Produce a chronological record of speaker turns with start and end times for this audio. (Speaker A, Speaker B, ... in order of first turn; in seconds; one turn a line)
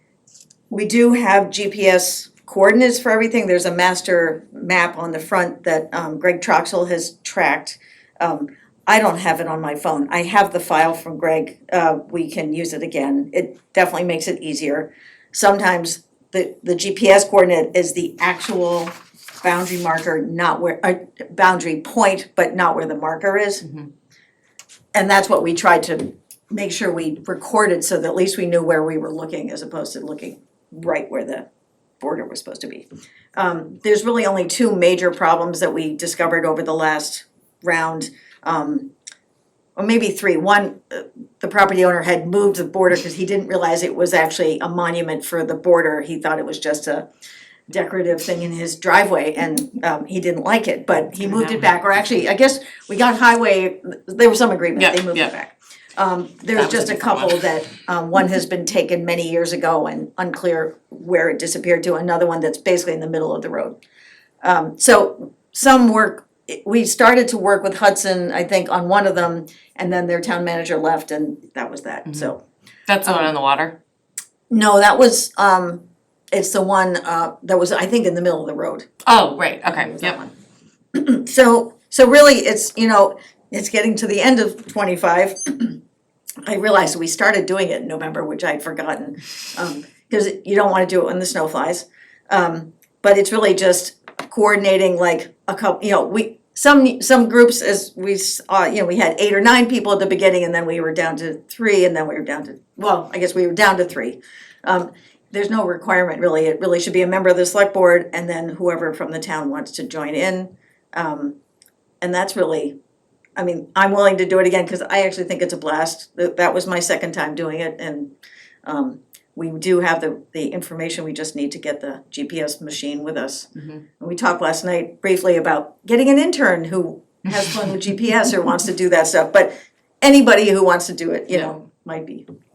Speaker A: 0.7-23.6
Speaker B: 23.6-23.9
Speaker A: 24.9-31.4
Speaker A: 32.0-38.9
Speaker A: 39.8-47.0
Speaker A: 47.7-63.8
Speaker B: 54.8-55.3
Speaker B: 56.5-57.4
Speaker A: 64.4-72.4
Speaker B: 72.0-72.3
Speaker B: 72.9-73.7
Speaker A: 73.0-73.3
Speaker A: 74.5-78.9
Speaker B: 79.0-80.2
Speaker A: 79.6-80.3
Speaker A: 80.9-85.8
Speaker A: 86.4-111.3
Speaker A: 112.0-112.8
Speaker A: 113.3-118.1
Speaker A: 118.6-132.2
Speaker B: 123.6-123.8
Speaker B: 127.3-127.8
Speaker B: 131.3-131.6